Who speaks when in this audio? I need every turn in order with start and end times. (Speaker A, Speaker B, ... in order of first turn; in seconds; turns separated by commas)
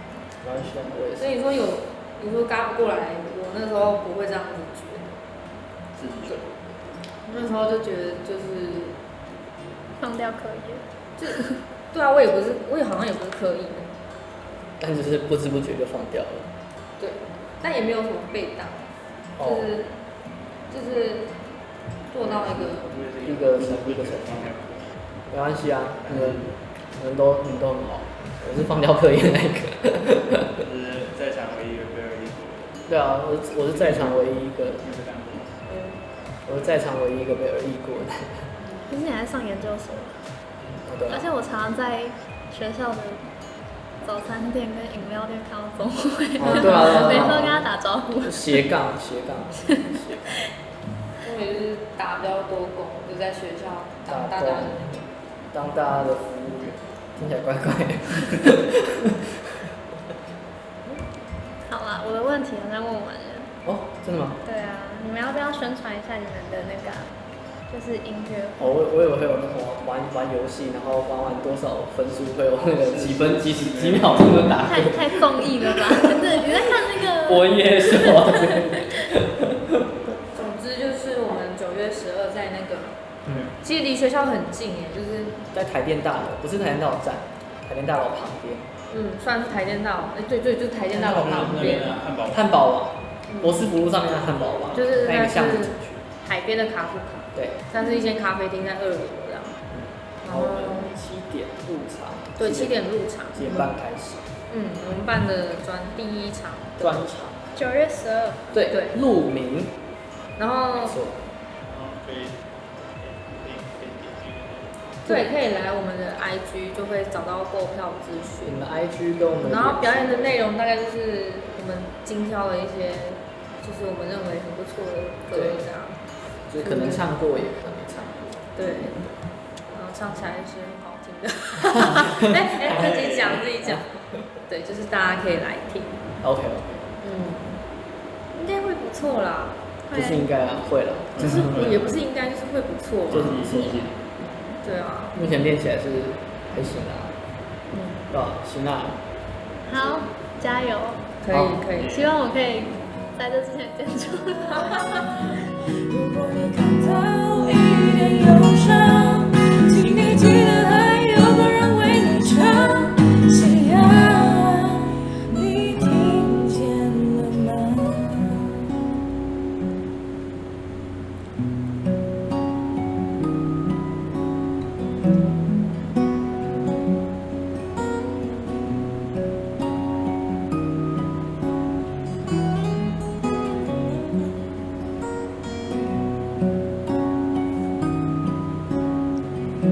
Speaker A: 0.4-1.3, Speaker B: 1.2-5.2, Speaker C: 6.0-6.4, Speaker A: 6.2-6.5, Speaker B: 7.2-9.0, Speaker D: 10.0-11.5, Speaker B: 11.2-13.9, Speaker A: 14.8-16.5, Speaker B: 17.0-18.9, Speaker A: 19.4-19.7, Speaker B: 19.4-19.9, Speaker B: 20.7-21.3, Speaker B: 22.1-22.9, Speaker C: 22.2-25.0, Speaker A: 23.2-24.5, Speaker A: 25.3-30.6, Speaker C: 26.0-26.5, Speaker C: 30.6-32.8, Speaker A: 32.9-34.8, Speaker C: 33.7-34.2, Speaker C: 34.8-35.6, Speaker B: 35.7-36.0, Speaker A: 36.5-38.5, Speaker B: 38.6-38.9, Speaker D: 38.9-40.2, Speaker A: 40.6-41.2, Speaker D: 41.1-43.3, Speaker D: 44.0-48.6, Speaker A: 46.4-47.6, Speaker B: 46.5-47.3, Speaker A: 48.2-50.4, Speaker B: 51.2-54.9, Speaker A: 54.1-59.6, Speaker D: 61.6-63.5, Speaker A: 63.6-64.4, Speaker D: 64.4-67.1, Speaker D: 67.7-68.8, Speaker A: 68.6-79.9, Speaker C: 72.8-74.5, Speaker D: 74.6-78.5, Speaker B: 80.3-83.0, Speaker C: 83.3-83.5, Speaker B: 83.6-85.4, Speaker A: 85.5-88.7, Speaker B: 88.9-92.0, Speaker A: 90.9-96.0, Speaker C: 91.0-92.5, Speaker B: 93.3-93.6, Speaker B: 94.7-99.6, Speaker A: 99.7-104.2, Speaker B: 100.2-100.9, Speaker B: 102.4-103.7, Speaker B: 104.5-107.0, Speaker A: 106.8-107.4, Speaker D: 107.5-108.4, Speaker A: 108.5-109.8, Speaker B: 108.7-109.0, Speaker B: 110.4-110.9, Speaker A: 110.7-111.2, Speaker C: 111.6-114.8, Speaker B: 115.0-118.6, Speaker A: 118.4-120.4, Speaker B: 119.4-126.0, Speaker A: 125.3-125.6, Speaker A: 126.5-129.2, Speaker B: 126.6-127.0, Speaker B: 128.6-129.0, Speaker B: 129.7-133.9, Speaker A: 131.8-132.9, Speaker C: 132.6-133.5, Speaker A: 133.6-134.3, Speaker B: 134.5-136.0, Speaker A: 136.2-136.9, Speaker B: 137.0-137.6, Speaker B: 138.3-139.6, Speaker D: 139.8-140.3, Speaker A: 139.9-141.6, Speaker C: 141.2-141.9, Speaker B: 141.5-143.6, Speaker C: 143.1-143.9, Speaker A: 143.1-143.9, Speaker B: 144.6-145.1, Speaker A: 145.1-147.1, Speaker B: 147.7-148.1, Speaker A: 148.1-149.0, Speaker D: 149.7-151.0, Speaker B: 151.2-152.0, Speaker A: 151.3-151.6, Speaker C: 151.7-152.1, Speaker D: 151.9-154.9, Speaker E: 155.7-168.5